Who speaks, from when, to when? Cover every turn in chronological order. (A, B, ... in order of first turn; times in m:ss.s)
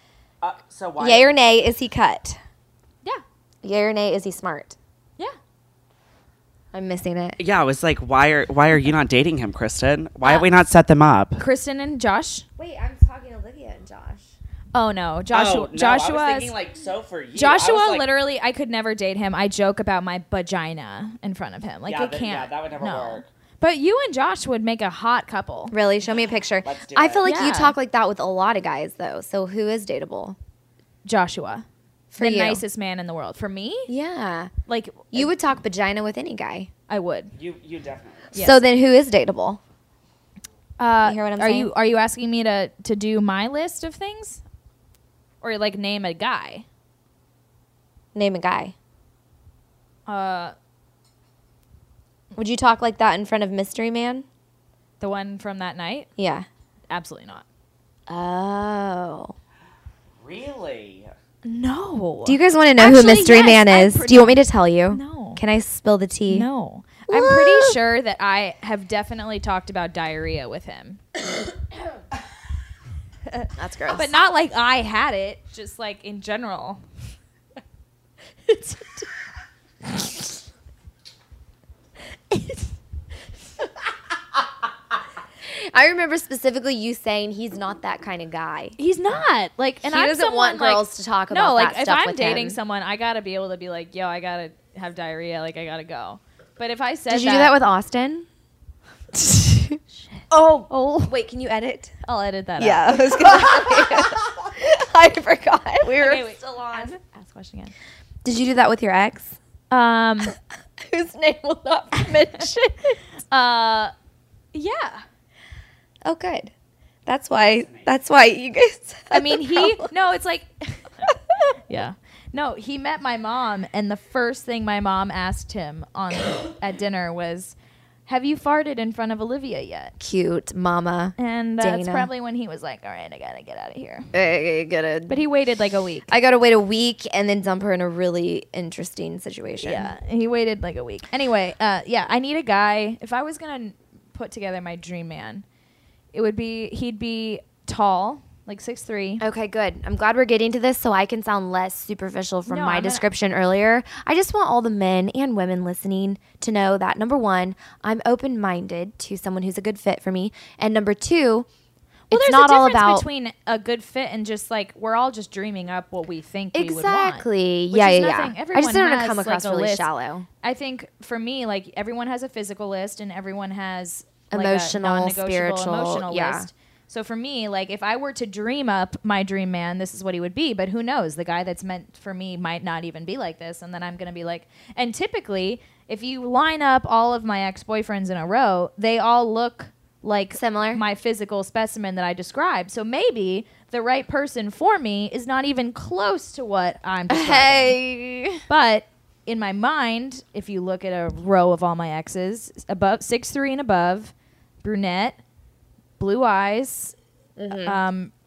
0:00.4-0:01.3 A
0:01.0-0:02.4 B
0:03.6-0:04.8 B
0:06.7-0:07.4 B
0:07.4-0:11.4 A
0:11.4-0:12.4 C
0:12.6-0:14.3 B
0:14.7-0:16.5 C
0:15.3-0:18.1 A
0:17.3-0:25.7 C
0:21.8-0:23.3 A
0:25.7-0:30.4 B
0:26.6-0:27.2 A
0:27.2-0:27.8 C
0:31.0-0:31.6 C
0:32.1-0:32.6 B
0:32.2-0:33.9 C
0:33.9-0:34.5 B
0:34.7-0:35.3 C
0:35.1-0:36.7 B
0:36.9-0:37.3 C
0:37.4-0:38.3 A
0:38.3-0:38.6 C
0:38.3-0:39.6 B
0:40.8-0:44.4 C
0:41.0-0:41.7 B
0:45.4-0:46.6 C
0:48.1-0:48.7 B
0:50.1-0:50.5 C
0:52.3-0:54.2 B
0:55.0-0:56.1 C
0:56.2-0:56.5 B
0:56.9-0:57.4 C
0:58.1-0:59.3 B
1:00.2-1:01.1 A
1:01.4-1:05.4 C
1:02.2-1:06.4 B
1:06.3-1:11.0 C
1:07.1-1:07.8 B
1:13.3-1:16.8 C
1:13.6-1:14.1 B
1:18.4-1:19.1 C
1:19.8-1:20.1 C
1:22.3-1:22.7 C
1:25.4-1:28.8 B
1:28.8-1:37.5 C
1:29.8-1:32.6 B
1:37.1-1:38.3 B
1:40.1-1:41.1 C
1:40.3-1:41.9 B
1:42.0-1:43.2 C
1:42.6-1:47.0 B
1:45.8-1:47.7 C
1:48.2-1:49.4 B
1:49.7-1:50.4 C
1:50.8-1:52.6 B
1:51.9-1:53.9 C
1:54.5-1:55.0 C
1:56.0-1:56.5 B
1:57.0-1:59.9 B
1:57.3-1:57.9 A
1:59.1-2:01.1 C
2:01.7-2:07.5 C
2:08.1-2:09.9 C
2:10.0-2:12.1 B
2:11.2-2:14.1 C
2:14.1-2:15.2 B
2:15.1-2:16.1 C
2:16.1-2:19.9 B
2:19.6-2:25.4 C
2:26.1-2:29.2 C
2:29.2-2:41.5 B
2:32.5-2:33.0 C
2:42.1-2:43.0 B
2:42.1-2:49.9 C
2:46.5-2:50.3 B
2:50.4-3:17.8 C
2:54.3-2:56.5 B
3:10.3-3:10.8 B
3:17.1-3:18.4 B
3:18.5-3:25.2 C
3:26.0-3:26.9 C
3:27.4-3:27.8 B
3:27.6-3:28.1 C